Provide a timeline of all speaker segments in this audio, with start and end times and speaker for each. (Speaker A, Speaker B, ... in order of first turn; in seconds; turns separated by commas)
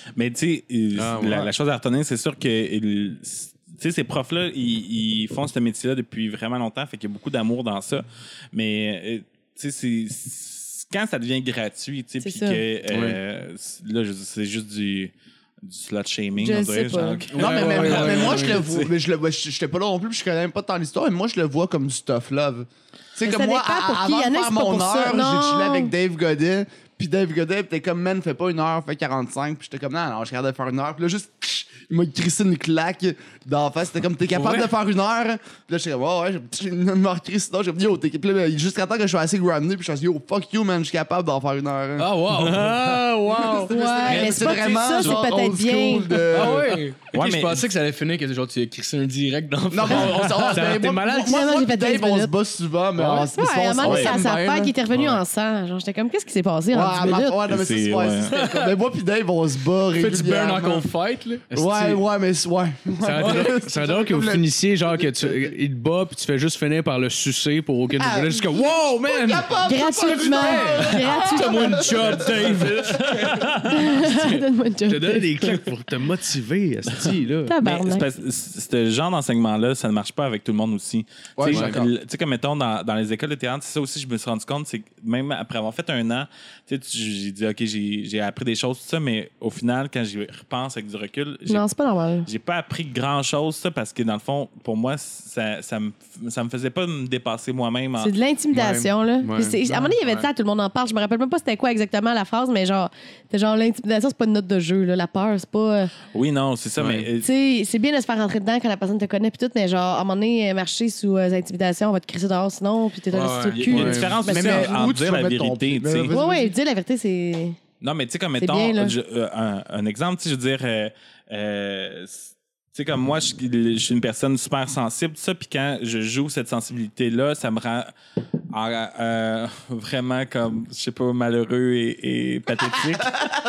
Speaker A: 0.2-18.9, Speaker B: 0.9-1.5, Speaker C: 12.2-12.6, Speaker B: 12.9-13.2, Speaker C: 16.4-17.2, Speaker B: 17.3-18.6, Speaker D: 17.3-42.1, Speaker C: 23.2-25.9, Speaker E: 34.3-34.7, Speaker E: 42.0-44.6, Speaker B: 42.4-43.7, Speaker D: 43.6-46.8, Speaker C: 43.7-46.2, Speaker E: 46.3-50.5, Speaker A: 47.1-47.6, Speaker D: 49.7-54.7, Speaker A: 50.0-50.5, Speaker B: 50.5-51.3, Speaker C: 50.8-52.3, Speaker B: 53.0-53.3, Speaker C: 53.3-57.4, Speaker A: 53.8-54.2, Speaker D: 56.7-60.9, Speaker A: 57.5-58.3, Speaker E: 58.3-58.8, Speaker E: 60.0-61.6, Speaker D: 61.5-65.5, Speaker B: 61.6-62.0, Speaker B: 63.0-69.5, Speaker E: 63.1-63.6, Speaker D: 68.0-73.0, Speaker C: 69.6-71.9, Speaker B: 70.3-70.9, Speaker E: 70.9-74.4, Speaker B: 72.2-72.9, Speaker A: 72.9-73.9, Speaker C: 73.7-75.6, Speaker B: 74.9-77.5, Speaker C: 77.5-78.1, Speaker A: 77.6-91.7, Speaker D: 81.4-81.9, Speaker B: 81.5-81.8, Speaker C: 91.5-92.3, Speaker A: 92.2-98.2, Speaker C: 98.0-106.0, Speaker B: 98.5-100.0, Speaker A: 106.1-107.3, Speaker B: 106.8-107.1, Speaker C: 107.2-114.9, Speaker E: 113.1-114.1, Speaker A: 113.5-116.1, Speaker B: 113.7-114.2, Speaker D: 114.3-116.5, Speaker C: 116.1-117.6, Speaker A: 117.8-127.9, Speaker C: 118.4-118.9, Speaker A: 128.5-133.2